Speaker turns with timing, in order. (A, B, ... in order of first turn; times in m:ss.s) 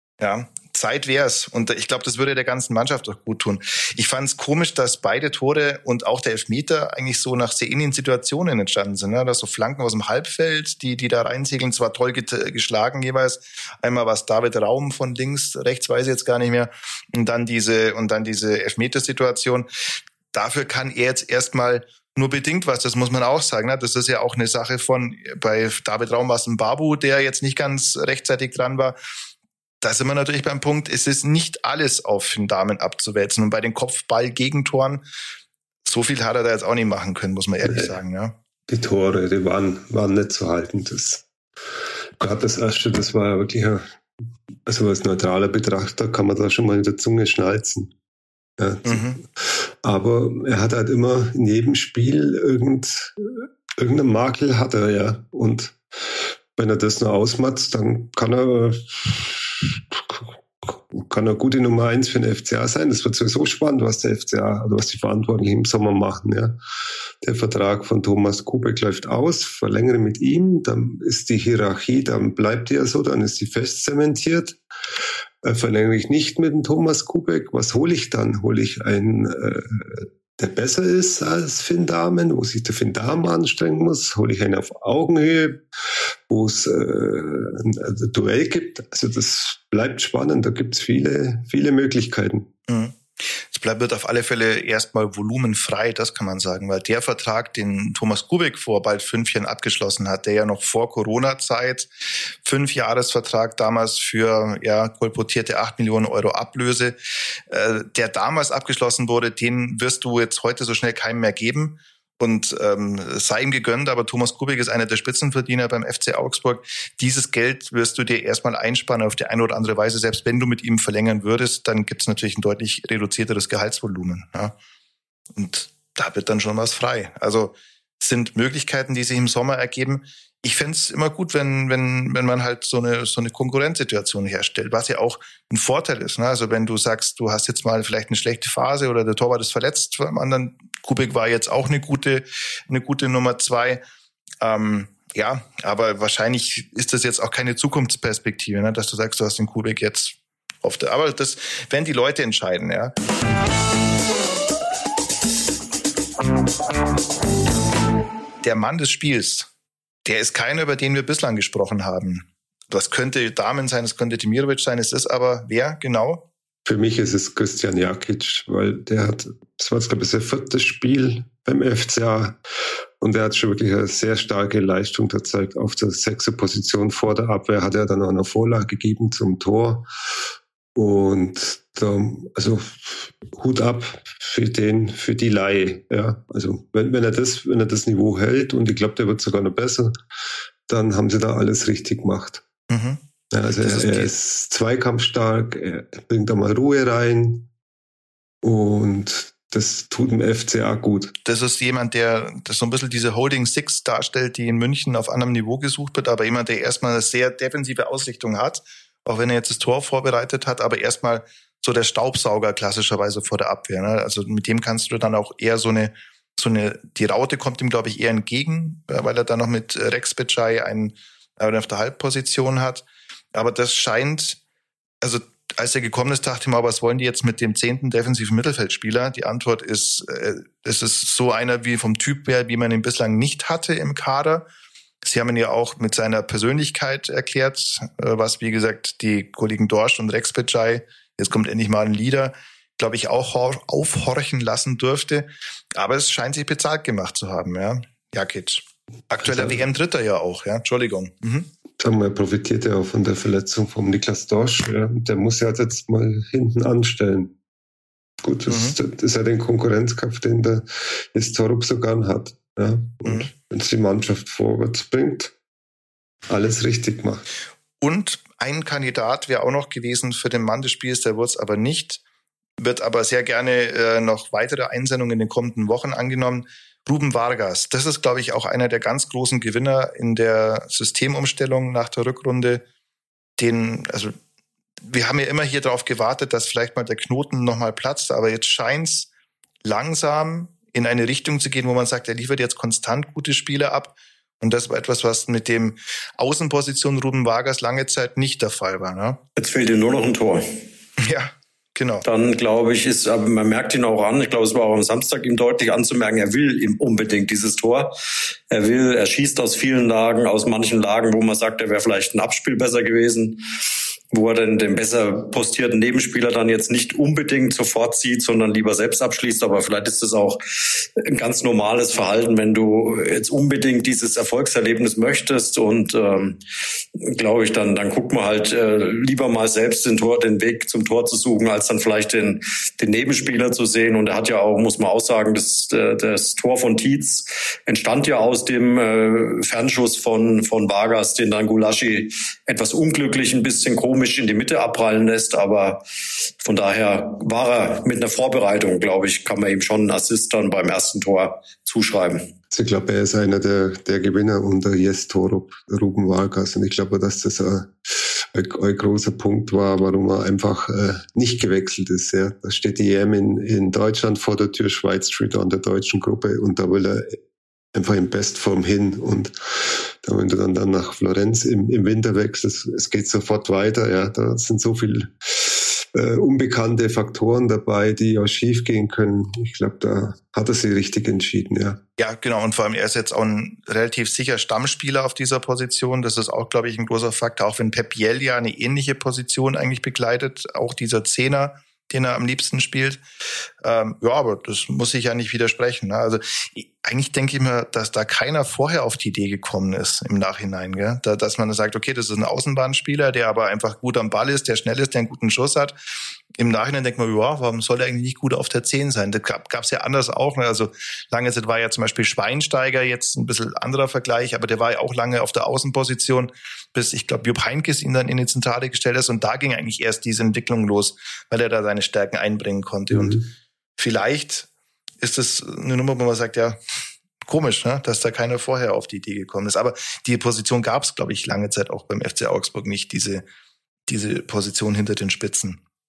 0:00.2-0:19.7 A
0:20.3-0:29.0 A
0:29.8-0:35.0 A
0:35.8-0:38.3 A
0:37.6-0:37.9 B
0:38.7-0:41.2 B
0:42.2-0:43.9 B
0:44.7-0:47.9 B
0:48.6-1:06.6 B
0:48.8-0:49.2 A
1:07.2-1:14.6 B
1:15.4-1:25.6 B
1:26.3-1:32.5 B
1:32.7-1:33.0 A
1:33.5-1:47.0 A
1:47.5-2:04.5 A
2:05.4-2:23.8 A
2:24.4-2:32.9 A
2:38.4-2:39.5 A
2:40.0-2:46.2 A
2:46.7-2:52.4 B
2:53.0-2:59.9 B
3:00.8-3:10.0 B
3:10.7-3:12.4 B
3:12.7-3:13.0 A
3:13.3-3:17.5 B
3:13.5-3:14.1 A
3:18.4-3:21.1 B
3:21.3-3:44.4 A
3:45.0-3:54.4 A
3:55.0-4:11.5 A
4:09.3-4:09.5 B
4:11.8-4:17.3 B
4:18.2-4:25.3 B
4:18.5-4:18.8 A
4:23.0-4:23.3 A
4:26.3-4:27.2 B
4:27.8-4:32.0 A
4:32.6-4:42.6 A
4:43.4-4:44.2 A
4:44.8-4:49.1 A
4:49.6-4:59.2 A
4:59.4-5:00.5 C
5:01.0-5:02.0 A
5:02.0-5:08.0 C
5:08.5-5:13.4 C
5:14.1-5:26.4 C
5:27.0-5:45.8 C
5:46.4-5:52.3 C
5:52.5-6:07.2 B
6:07.8-6:21.8 B
6:22.0-6:33.0 A
6:33.6-6:45.7 A
6:46.4-7:03.2 A
7:02.9-7:03.2 B
7:03.8-7:04.5 A
7:05.0-7:06.6 A
7:07.3-7:13.2 A
7:13.9-7:15.6 A